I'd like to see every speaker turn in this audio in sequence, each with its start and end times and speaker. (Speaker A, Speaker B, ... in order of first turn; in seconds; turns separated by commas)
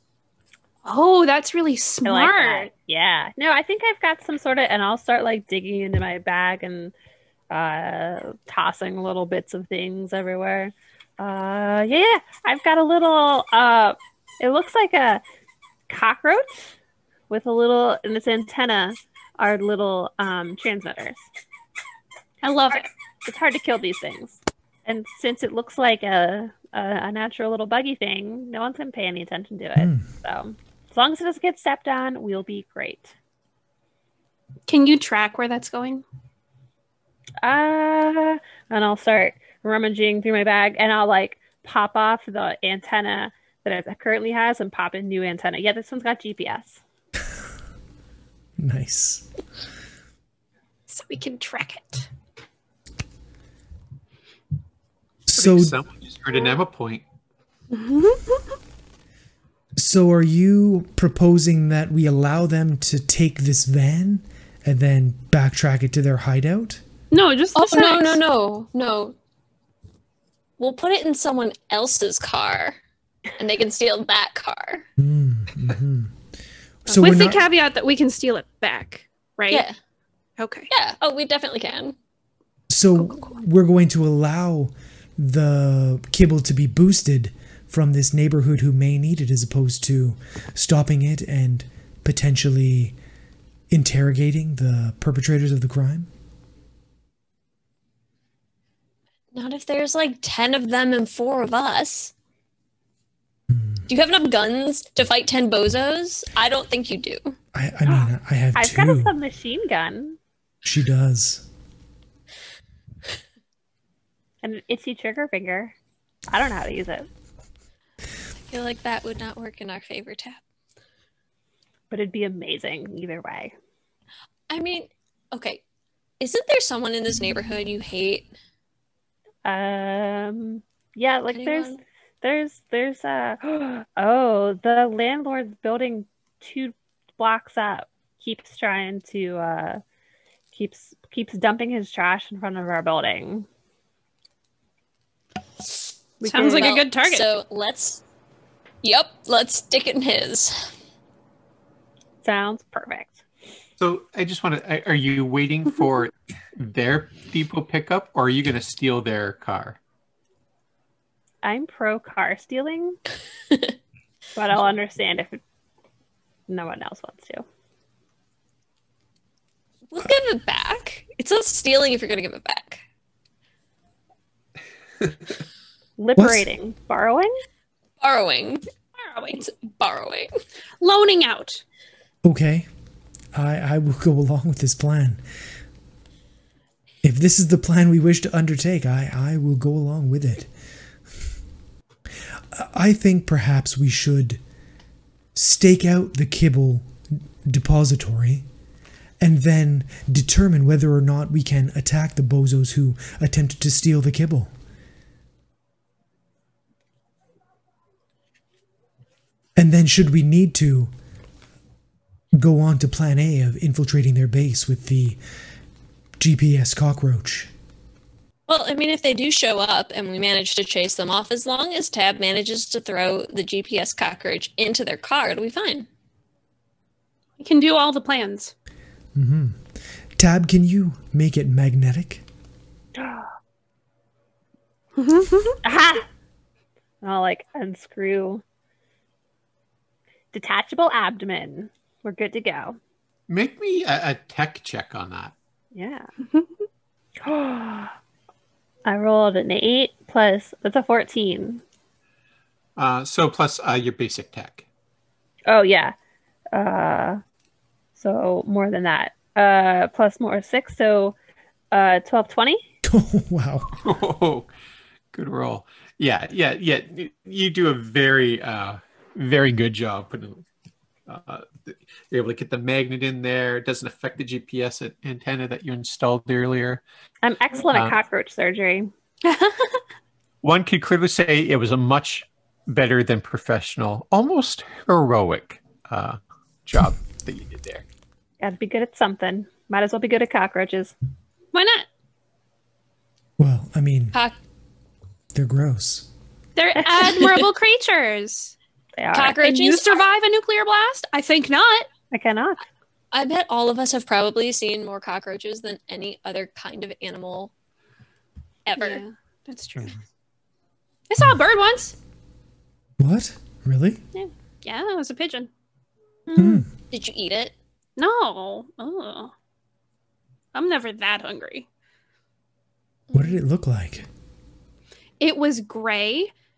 Speaker A: 0.8-2.7, Speaker B: 2.0-6.9, Speaker B: 7.5-15.2, Speaker B: 15.9-16.7, Speaker B: 17.3-21.2, Speaker A: 22.4-22.9, Speaker B: 22.7-33.1, Speaker C: 29.8-30.1, Speaker A: 34.7-36.0, Speaker B: 37.4-46.8, Speaker C: 48.6-49.3, Speaker A: 50.9-52.1, Speaker C: 55.3-55.8, Speaker D: 55.3-57.0, Speaker A: 57.7-58.6, Speaker C: 59.8-66.8, Speaker A: 67.1-68.2, Speaker E: 67.5-69.2, Speaker E: 70.6-72.8, Speaker E: 73.4-74.8, Speaker C: 75.0-76.1, Speaker C: 76.8-77.4, Speaker A: 76.9-79.6, Speaker E: 79.5-79.8, Speaker A: 80.4-80.7, Speaker E: 80.7-82.0, Speaker C: 82.7-93.0, Speaker C: 93.7-96.1, Speaker E: 99.3-102.1, Speaker C: 103.5-103.8, Speaker E: 103.9-107.3, Speaker C: 107.5-109.1, Speaker B: 107.9-110.2, Speaker C: 110.6-111.4, Speaker B: 114.4-115.7, Speaker B: 116.3-117.1, Speaker E: 118.5-120.4, Speaker B: 121.9-123.5, Speaker E: 124.5-125.6, Speaker E: 126.2-128.3, Speaker B: 129.4-139.8, Speaker E: 131.3-131.8, Speaker B: 140.5-143.5, Speaker B: 146.2-146.7, Speaker A: 146.2-147.2, Speaker E: 146.4-148.0, Speaker E: 148.8-150.7, Speaker B: 152.2-153.2, Speaker D: 153.8-159.8, Speaker B: 161.4-163.0, Speaker B: 164.3-165.4, Speaker B: 166.5-167.4, Speaker E: 169.9-172.8, Speaker B: 176.0-177.4, Speaker C: 176.2-176.4, Speaker E: 178.0-178.6, Speaker A: 178.9-179.4, Speaker E: 179.4-180.3, Speaker A: 180.8-181.6, Speaker C: 182.2-182.7, Speaker C: 183.3-185.2, Speaker C: 187.0-190.5, Speaker C: 192.5-194.4, Speaker C: 195.3-198.4, Speaker C: 199.2-204.5, Speaker C: 209.6-210.9, Speaker C: 212.3-215.2, Speaker C: 216.2-217.5, Speaker E: 218.5-225.9, Speaker A: 227.4-228.5, Speaker C: 229.1-229.6, Speaker C: 230.2-232.2, Speaker B: 233.0-233.3, Speaker A: 235.0-235.6, Speaker B: 235.6-236.1, Speaker B: 237.0-238.4, Speaker B: 240.3-242.8, Speaker D: 243.3-245.3, Speaker B: 245.7-246.1, Speaker B: 247.2-247.9, Speaker B: 248.8-251.6, Speaker D: 252.8-254.6, Speaker B: 255.4-255.9, Speaker B: 256.5-257.2, Speaker B: 258.0-261.1, Speaker B: 261.7-262.6, Speaker C: 262.8-263.8, Speaker D: 263.8-264.5, Speaker D: 265.1-270.4, Speaker D: 271.1-276.8, Speaker B: 277.2-278.9, Speaker D: 277.7-278.0, Speaker A: 279.2-279.8, Speaker D: 280.4-287.8, Speaker B: 288.4-290.9, Speaker A: 291.5-291.9, Speaker C: 293.4-294.1, Speaker C: 295.3-296.1, Speaker A: 296.6-298.6, Speaker B: 299.0-299.3, Speaker E: 299.1-300.1, Speaker A: 299.1-301.9, Speaker B: 302.1-302.6, Speaker E: 303.1-307.5, Speaker E: 308.6-309.0, Speaker A: 308.8-309.9, Speaker A: 311.1-311.9, Speaker C: 313.0-314.0, Speaker A: 314.1-315.5, Speaker C: 316.4-316.7, Speaker E: 316.9-317.5, Speaker A: 318.0-319.3, Speaker A: 320.5-321.7, Speaker C: 323.1-324.1, Speaker A: 325.2-326.3